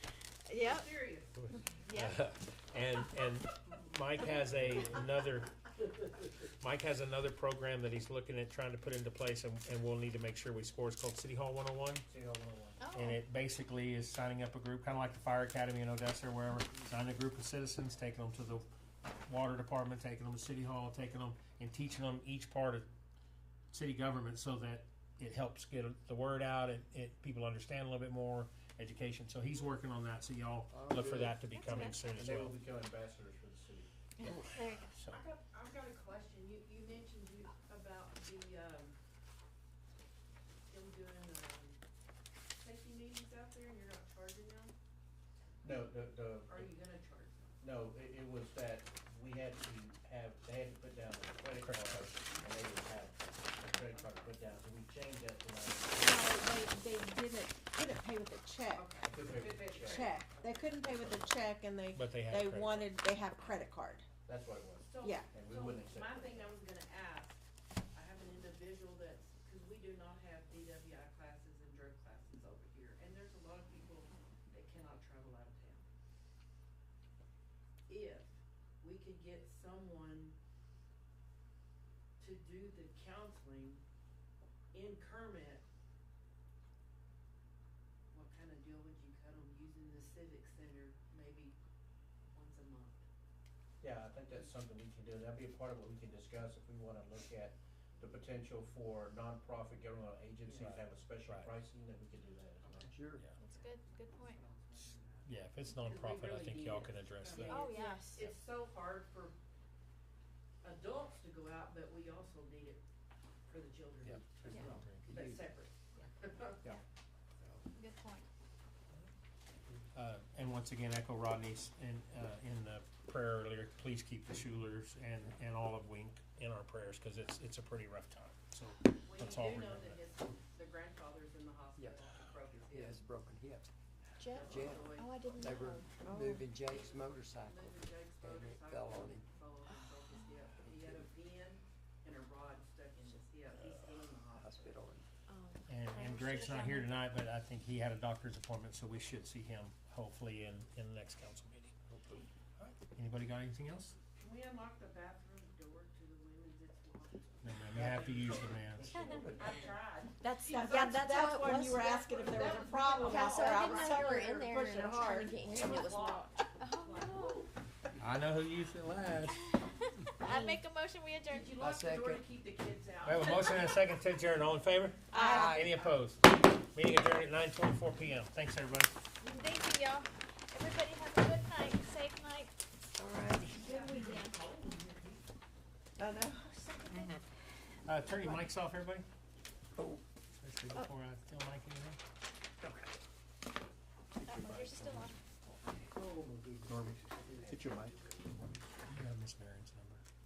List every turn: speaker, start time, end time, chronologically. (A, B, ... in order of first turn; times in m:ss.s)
0:00.5-0:00.9 A
0:00.5-0:01.6 B
0:01.4-0:12.1 C
0:01.8-0:02.2 A
0:12.1-0:12.8 D
0:12.8-0:13.2 A
0:12.9-0:22.9 C
0:23.7-0:32.6 C
0:30.7-0:31.5 E
0:31.6-0:32.0 A
0:31.7-0:33.9 D
0:34.2-0:35.0 A
0:34.2-0:35.2 C
0:35.1-0:39.0 B
0:40.7-0:41.8 B
0:42.6-0:44.7 B
0:45.6-0:46.7 D
0:46.5-0:47.6 B
0:47.6-0:56.2 D
0:51.6-0:52.2 C
0:53.6-0:54.4 B
0:56.0-0:58.8 F
0:58.7-1:01.1 B
0:59.0-1:00.1 D
0:59.8-1:04.0 F
1:01.9-1:02.9 C
1:04.2-1:06.5 D
1:04.8-1:15.8 B
1:05.0-1:05.3 F
1:17.9-1:20.4 B
1:22.2-1:23.8 B
1:24.7-1:25.6 B
1:28.1-1:31.6 B
1:32.3-1:33.0 B
1:33.8-1:42.9 D
1:40.4-1:40.8 B
1:41.2-1:41.5 C
1:42.6-1:49.4 B
1:42.8-1:43.3 E
1:43.4-1:44.4 A
1:45.2-1:47.7 C
1:47.3-1:48.0 F
1:47.4-1:48.2 A
1:50.6-1:52.8 B
1:53.4-1:56.7 B
1:54.0-1:55.5 E
1:54.7-1:55.0 C
1:57.7-1:58.2 A
1:59.9-2:10.1 C
2:09.1-2:13.0 B
2:11.8-2:12.1 E
2:12.7-2:13.7 E
2:14.2-2:16.0 A
2:14.3-2:15.8 B
2:14.4-2:19.3 E
2:16.0-2:16.4 F
2:16.4-2:24.8 B
2:20.6-2:21.1 E
2:24.3-2:25.0 E
2:25.3-2:27.0 A
2:25.7-2:31.7 C
2:31.9-2:32.3 E
2:32.6-2:33.9 C
2:34.1-2:38.1 B
2:37.4-2:39.0 C
2:37.7-2:39.4 D
2:38.8-2:39.7 E
2:39.1-2:47.5 B
2:40.2-2:45.8 F
2:43.2-2:47.4 A
2:48.0-2:49.4 C
2:49.5-2:51.6 A
2:50.2-2:50.6 F
2:51.3-2:53.6 B
2:51.6-2:52.2 E
2:53.0-2:59.0 C
2:55.1-2:55.6 F
2:55.3-2:55.8 E
2:59.2-3:02.5 A
3:03.0-3:03.8 F
3:03.5-3:05.2 B
3:03.7-3:04.3 A
3:06.0-3:07.0 F
3:06.5-3:07.1 A
3:06.9-3:07.2 E
3:07.8-3:09.0 C
3:09.8-3:10.0 E
3:10.4-3:12.0 C
3:12.6-3:12.9 E
3:14.2-3:15.2 A
3:14.3-3:15.1 D
3:15.9-3:17.7 B
3:16.7-3:18.0 D
3:17.4-3:17.9 E
3:18.9-3:20.0 C